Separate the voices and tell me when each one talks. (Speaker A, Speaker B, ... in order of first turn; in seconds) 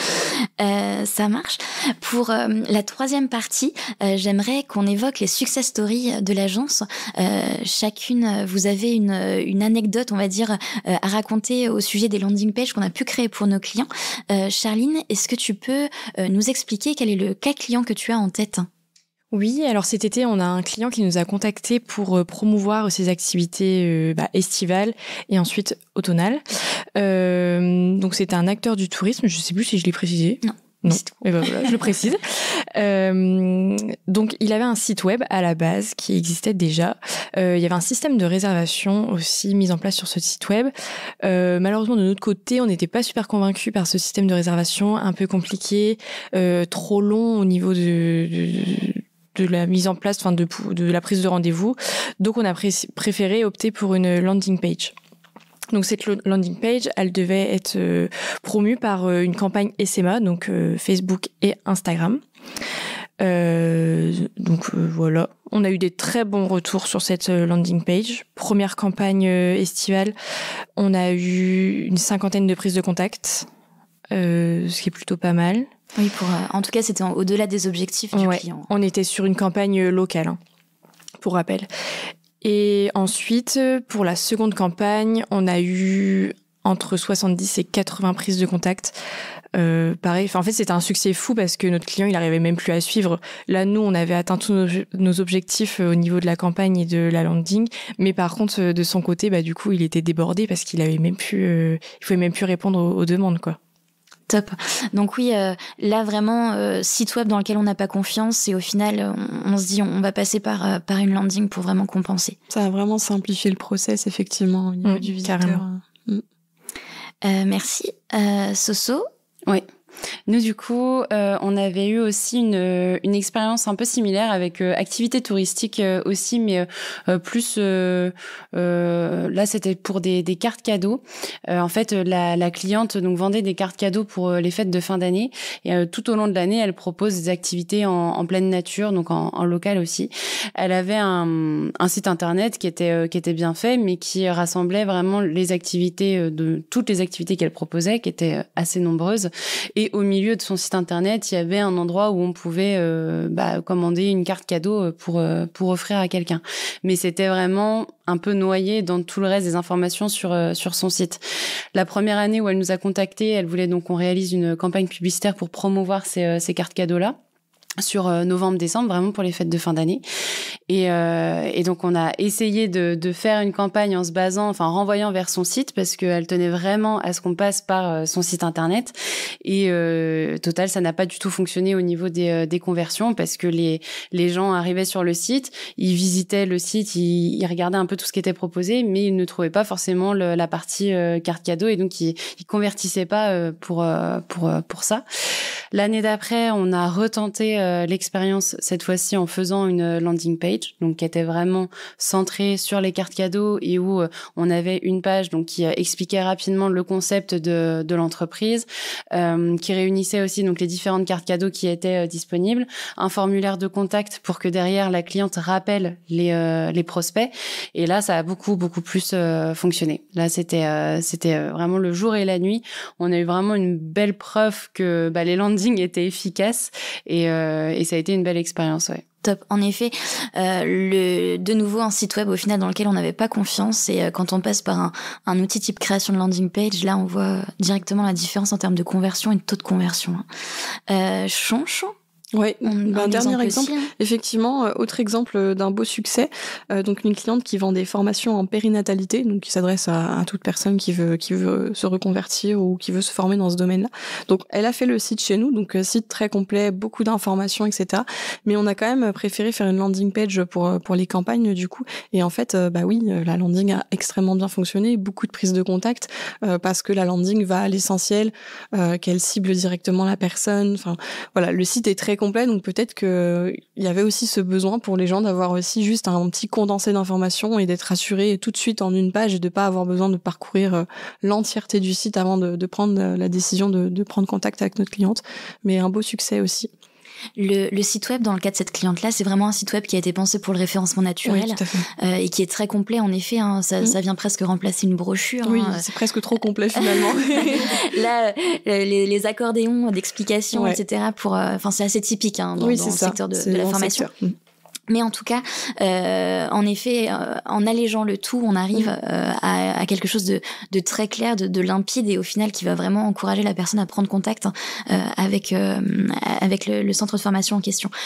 Speaker A: 0.6-18.7, 30.4-31.7, 76.0-78.7, 104.3-112.4, 117.2-119.0, 229.2-240.3, 240.9-241.9, 242.6-243.9, 287.4-295.9, 296.8-304.1, 304.9-317.9
Speaker B: 19.3-26.4, 27.0-54.9, 55.7-62.2, 63.2-70.1, 70.8-73.5, 74.1-75.7, 78.1-80.4, 81.2-81.7, 82.4-89.0, 89.5-103.6, 114.8-115.6
Speaker C: 112.5-116.2, 242.3-286.7, 291.2-291.9, 295.4-297.7, 300.5-300.8, 302.6-304.3
Speaker D: 120.3-161.2, 161.7-167.2, 167.8-170.0, 170.7-195.0, 195.7-229.0